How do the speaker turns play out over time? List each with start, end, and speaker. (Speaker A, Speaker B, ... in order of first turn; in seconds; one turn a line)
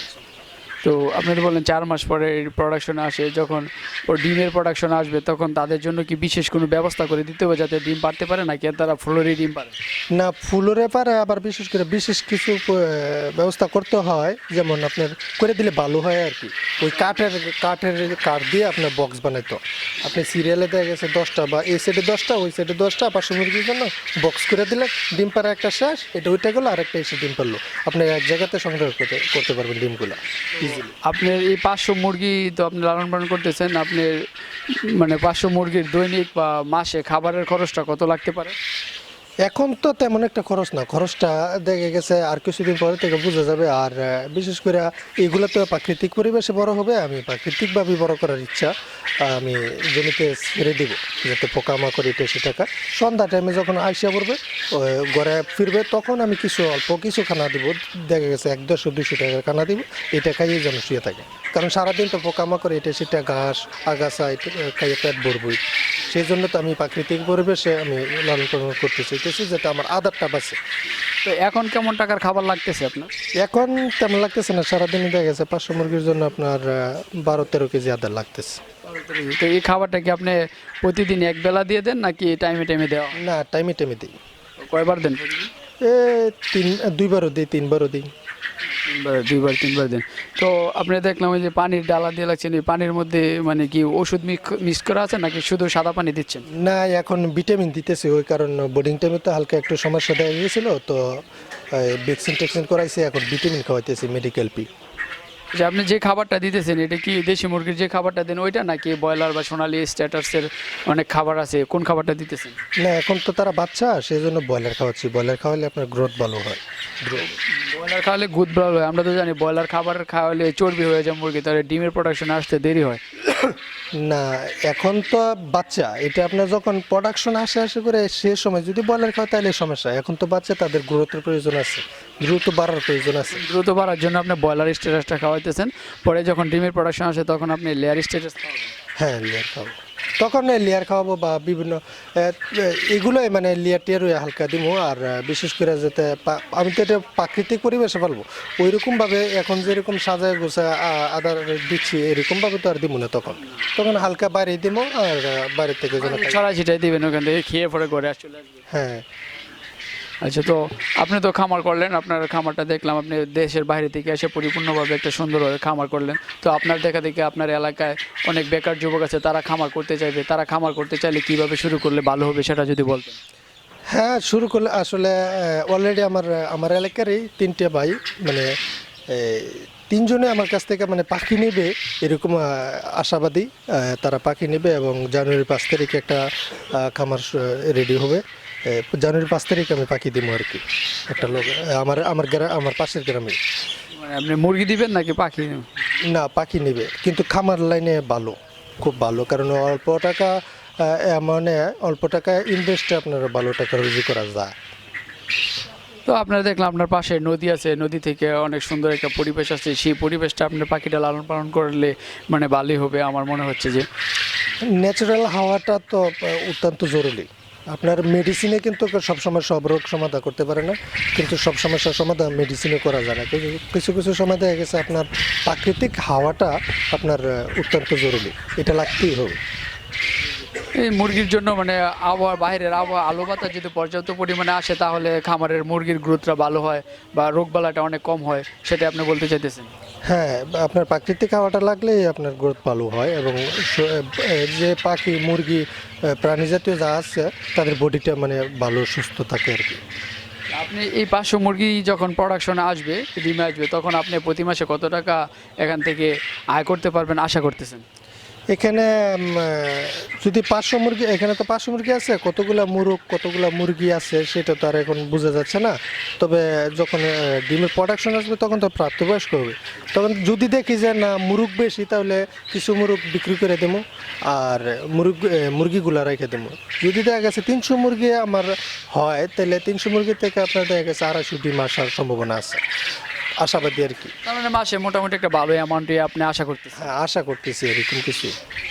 Speaker A: 0.8-9.7
Speaker B: 10.1-30.9
Speaker A: 30.6-38.5
Speaker B: 39.5-48.7
Speaker B: 49.2-70.6
Speaker A: 71.2-73.1
Speaker B: 73.4-78.6
Speaker A: 78.8-83.2
Speaker B: 83.2-84.1
Speaker A: 84.6-85.5
Speaker B: 85.8-88.1
Speaker A: 88.8-96.4
Speaker B: 96.5-104.7
Speaker A: 105.5-112.5
Speaker B: 112.8-117.3
Speaker A: 117.2-123.0
Speaker B: 124.0-133.4
Speaker A: 133.3-138.7
Speaker B: 139.0-156.4
Speaker A: 156.0-158.6
Speaker B: 158.7-159.1
Speaker A: 160.2-173.2
Speaker B: 173.9-178.5
Speaker B: 179.1-193.4
Speaker A: 193.9-195.7
Speaker B: 196.0-204.5
Speaker A: 206.1-213.8
Speaker B: 214.7-229.4
Speaker A: 230.6-239.7
Speaker B: 240.1-249.8
Speaker A: 250.5-257.8
Speaker B: 258.5-282.6
Speaker B: 283.4-284.1
Speaker A: 284.2-286.9
Speaker B: 286.8-288.3